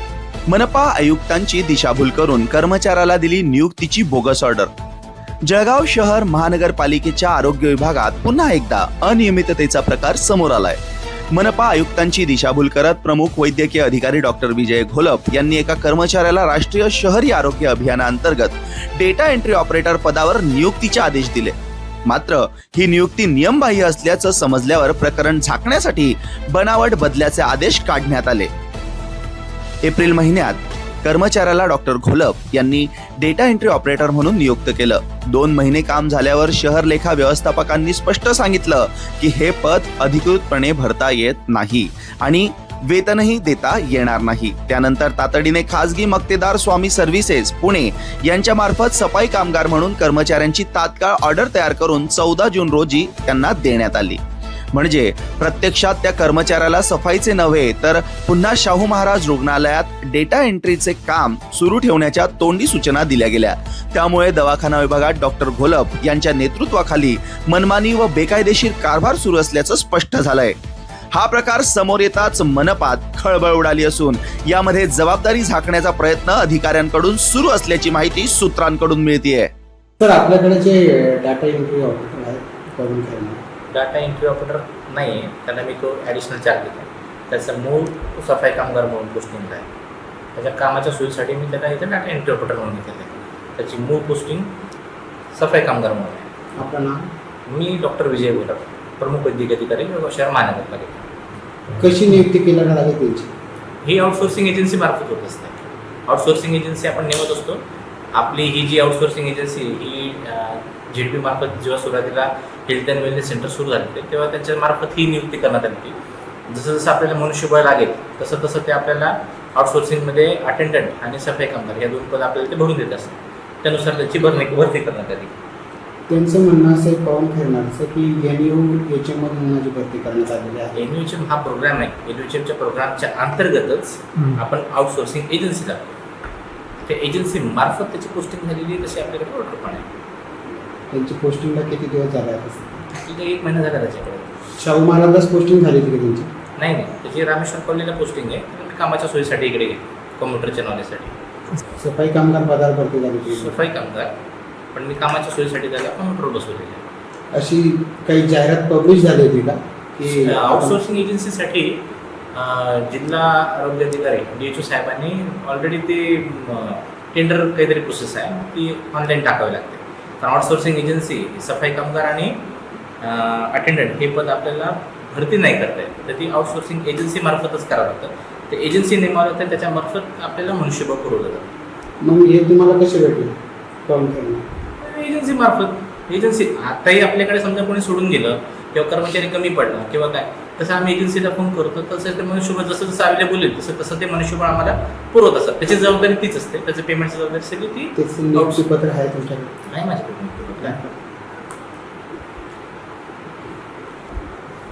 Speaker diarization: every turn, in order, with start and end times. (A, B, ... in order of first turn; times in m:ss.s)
0:00.5-0:04.7 A
0:05.4-0:10.8 A
0:11.3-0:21.5 A
0:22.1-0:28.5 A
0:29.8-0:54.2 A
0:54.7-1:10.6 A
1:11.1-1:19.5 A
1:20.0-1:23.4 B
1:23.7-1:29.7 C
1:30.4-1:34.5 C
1:35.3-1:36.3 C
1:36.6-1:37.1 B
1:37.5-1:41.0 C
1:41.8-1:43.3 B
1:43.8-1:47.6 C
1:48.1-1:55.9 C
1:56.5-2:05.3 C
2:06.1-2:10.8 B
2:10.7-2:15.9 C
2:16.8-2:19.8 C
2:20.9-2:22.8 B
2:22.9-2:24.4 C
2:24.6-2:26.3 B
2:26.6-2:31.2 C
2:31.8-2:33.6 B
2:33.3-2:34.1 C
2:34.7-2:36.8 C
2:37.3-2:40.8 B
2:40.1-2:41.8 C
2:42.3-2:52.4 C
2:53.0-3:01.5 C
3:02.0-3:03.3 B
3:03.8-3:04.4 B
3:04.8-3:18.6 C
3:18.0-3:19.7 B
3:19.7-3:20.8 C
3:20.6-3:20.9 B